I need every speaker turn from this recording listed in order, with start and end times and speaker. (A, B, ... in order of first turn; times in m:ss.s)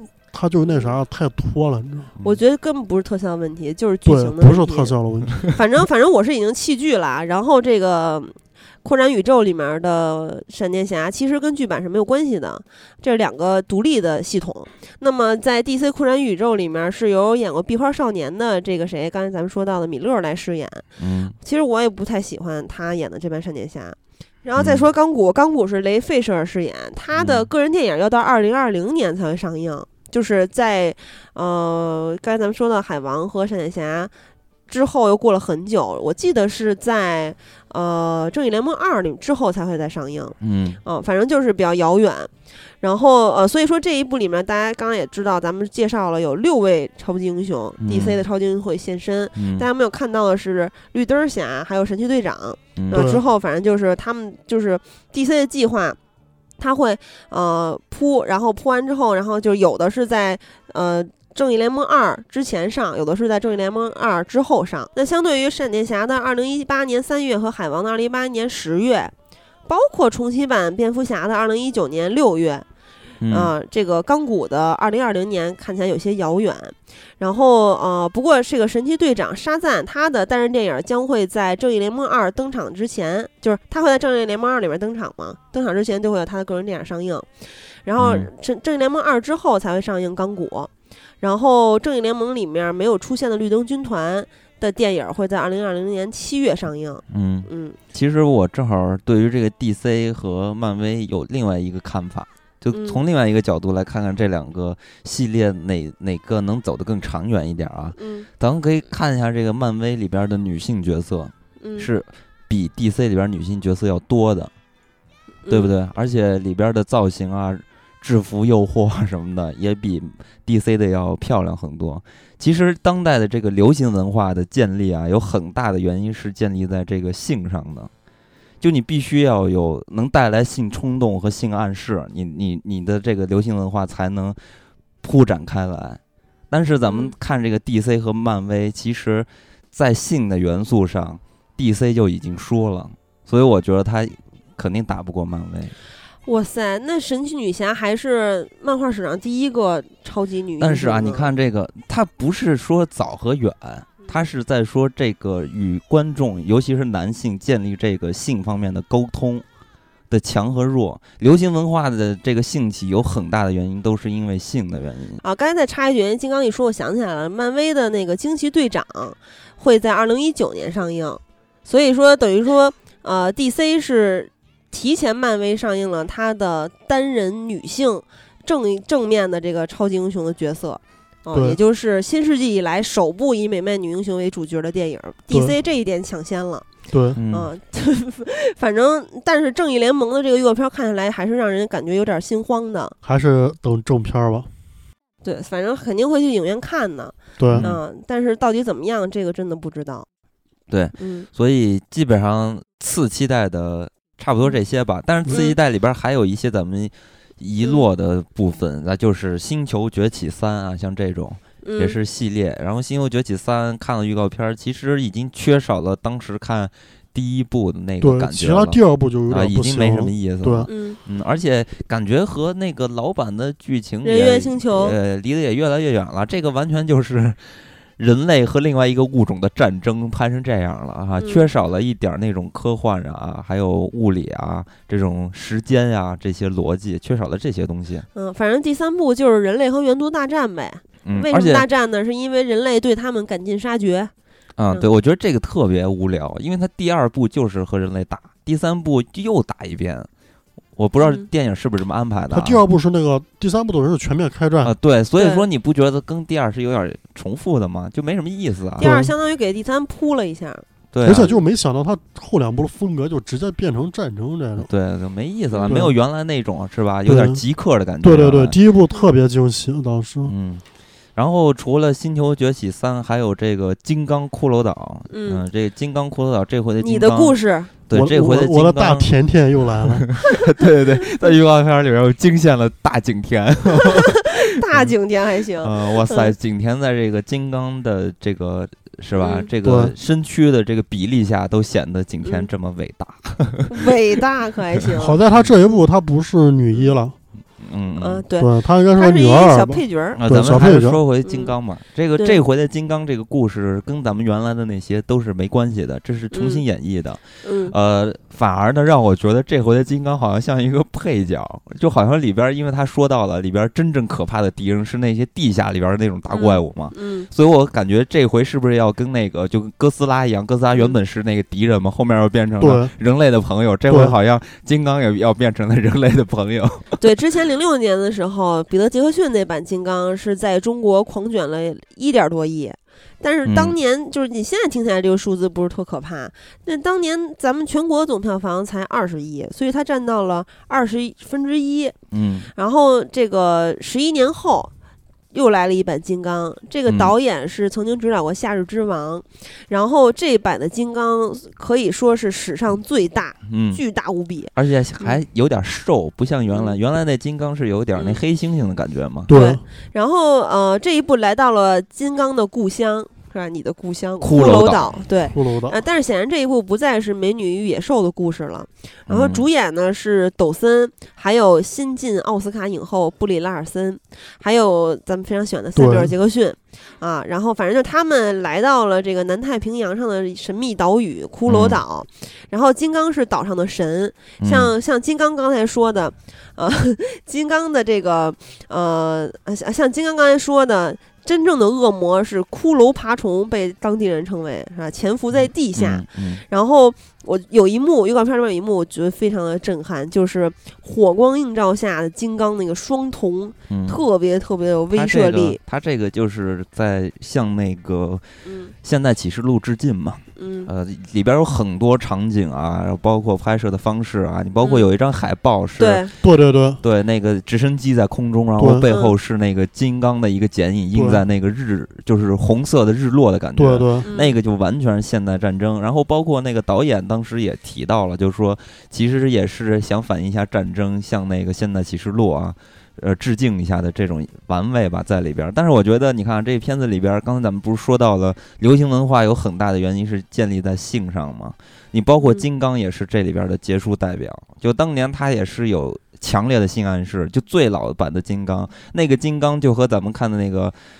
0:00.3-0:02.1 A
0:00.7-0:00.9 B
0:02.2-0:20.8 B
0:04.0-0:05.4 A
0:21.0-0:21.3 C
0:21.4-0:34.1 B
0:24.6-0:24.8 C
0:27.1-0:27.5 C
0:34.7-0:56.0 B
0:40.4-0:40.8 C
0:47.8-0:48.2 C
0:49.4-0:49.6 C
0:52.8-0:53.1 C
0:52.9-0:53.2 A
0:56.6-1:09.1 B
1:09.7-1:12.6 B
1:13.2-1:13.5 C
1:13.3-1:27.3 B
1:27.8-1:30.7 B
1:28.0-1:28.3 C
1:31.2-1:37.8 B
1:37.1-1:54.5 C
1:42.7-1:43.0 B
1:48.0-1:48.3 B
1:51.6-1:51.9 B
1:55.4-1:55.7 B
1:55.5-2:07.9 C
2:08.6-2:14.4 C
2:15.0-2:25.7 C
2:16.8-2:17.1 B
2:26.2-2:31.3 B
2:30.6-2:39.4 C
2:40.1-2:45.2 C
2:45.2-3:06.6 B
3:01.3-3:01.6 A
3:06.9-3:07.2 A
3:07.2-3:07.5 C
3:07.3-3:12.9 B
3:13.0-3:14.5 A
3:15.2-3:20.1 B
3:17.4-3:17.7 A
3:17.5-3:17.8 C
3:20.7-3:58.1 C
3:21.0-3:21.3 B
3:25.3-3:25.6 B
3:31.6-3:32.0 B
3:38.0-3:40.7 A
3:40.7-3:41.0 B
3:44.0-3:45.0 B
3:51.2-3:51.5 B
3:58.1-4:04.1 B
4:01.0-4:01.6 C
4:04.6-4:10.1 C
4:10.8-4:12.6 C
4:11.0-4:11.2 B
4:12.3-4:14.7 A
4:14.6-4:19.0 C
4:15.2-4:15.4 B
4:18.8-4:20.6 B
4:18.8-4:19.1 A
4:20.9-4:21.3 C
4:21.0-4:24.7 A
4:24.6-4:28.6 C
4:25.5-4:25.8 B
4:25.7-4:25.9 A
4:27.0-4:27.4 A
4:28.0-4:30.3 A
4:30.2-4:30.6 C
4:31.2-4:39.1 C
4:35.1-4:35.4 B
4:36.8-4:37.7 B
4:37.9-4:40.1 A
4:39.8-4:44.9 C
4:43.8-4:46.3 B
4:45.6-4:53.9 C
4:49.2-4:49.5 B
4:49.6-4:49.9 A
4:53.7-4:55.8 B
4:55.0-4:57.1 A
4:57.6-4:58.2 C
4:58.0-5:00.2 B
4:58.4-5:01.0 A
5:00.2-5:27.0 C
5:01.2-5:01.5 B
5:06.3-5:06.6 B
5:07.4-5:07.7 B
5:16.3-5:17.3 B
5:22.6-5:22.9 A
5:23.9-5:24.1 A
5:27.0-5:41.9 B
5:33.4-5:33.8 C
5:42.1-5:42.5 C
5:42.5-5:44.7 B
5:45.3-5:55.2 B
5:46.9-5:47.1 C
5:53.5-5:53.8 C
5:54.5-5:59.3 C
5:56.5-5:56.8 B
5:59.3-5:59.6 A
5:59.3-6:45.6 B
6:04.2-6:04.9 C
6:05.3-6:05.8 A
6:09.1-6:09.4 C
6:15.8-6:16.1 A
6:21.5-6:21.8 C
6:24.4-6:24.7 C
6:35.8-6:36.4 C
6:43.7-6:44.0 C
6:44.9-6:48.2 C
6:48.4-6:48.7 B
6:48.8-6:56.0 C
6:50.4-6:50.7 B
6:54.6-6:54.9 B
6:55.8-6:56.1 B
6:56.2-6:56.8 A
6:56.8-7:30.8 C
6:58.6-6:58.9 A
6:58.9-6:59.1 B
7:00.9-7:01.2 A
7:03.6-7:04.0 A
7:04.0-7:04.3 B
7:22.2-7:22.4 B